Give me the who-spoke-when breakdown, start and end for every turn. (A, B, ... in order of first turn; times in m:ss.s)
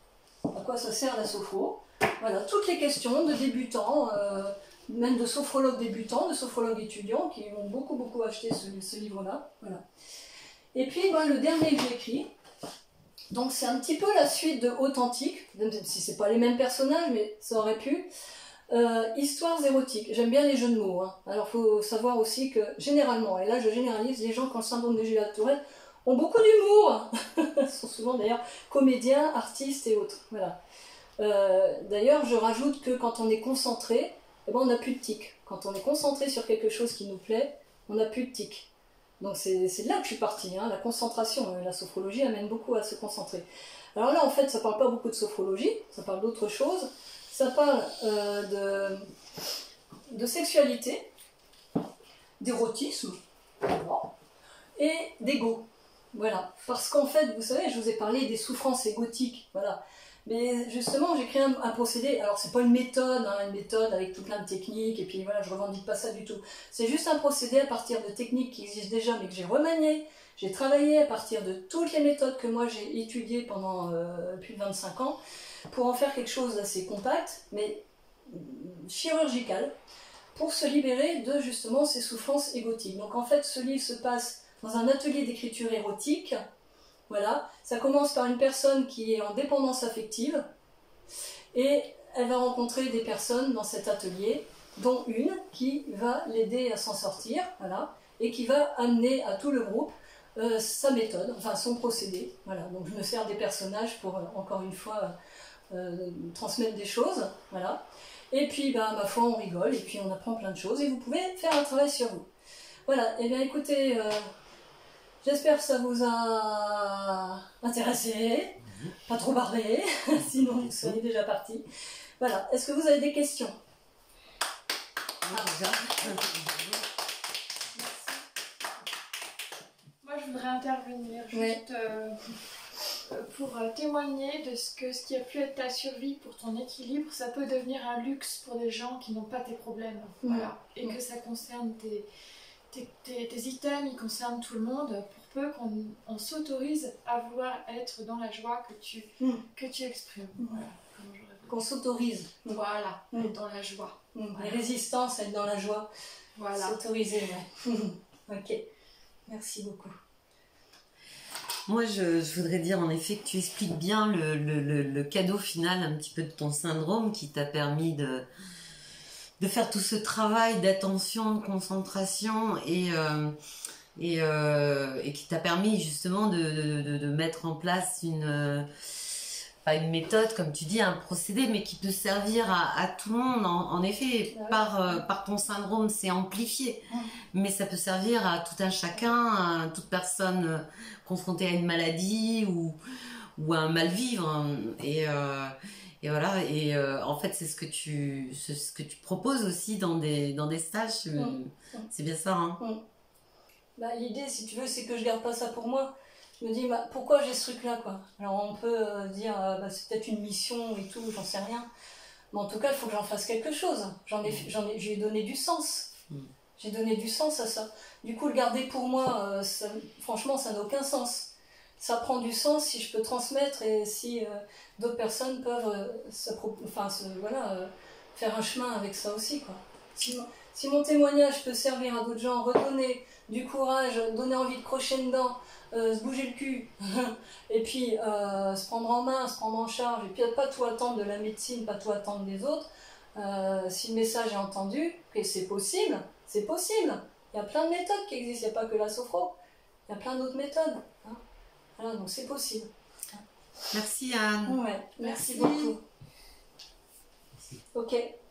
0:00.5-0:09.8 A
0:10.7-0:12.3 A
0:13.3-0:18.1 A
0:18.7-0:30.6 A
0:31.2-0:38.7 A
0:39.2-0:49.1 A
0:50.1-0:51.1 A
0:52.4-0:54.1 A
0:54.8-1:19.7 A
1:20.3-1:26.4 A
1:27.1-1:30.5 A
1:31.5-1:45.1 A
1:45.7-1:52.3 A
1:52.9-1:54.3 A
1:55.2-2:01.6 A
2:02.2-2:03.6 A
2:05.3-2:06.7 B
2:05.3-2:06.2 A
2:10.0-2:12.4 C
2:11.3-2:11.6 A
2:13.0-2:22.1 C
2:20.2-2:21.0 A
2:22.7-2:31.6 C
2:30.4-2:30.6 A
2:31.5-2:32.6 A
2:32.5-2:34.6 C
2:34.2-2:35.9 A
2:36.4-2:36.8 C
2:36.5-2:38.6 A
2:39.3-2:40.0 A
2:41.7-2:48.3 B
2:49.4-2:53.4 B
2:54.0-3:12.8 B
3:04.3-3:05.0 A
3:13.4-3:22.6 B
3:21.2-3:21.9 A
3:23.8-3:31.7 A
3:32.3-3:35.9 A
3:36.6-4:09.4 A
4:09.9-4:11.2 A
4:11.8-4:13.2 A
4:13.7-4:14.6 B
4:14.5-4:15.8 A
4:15.0-4:15.7 C
4:17.7-4:18.1 A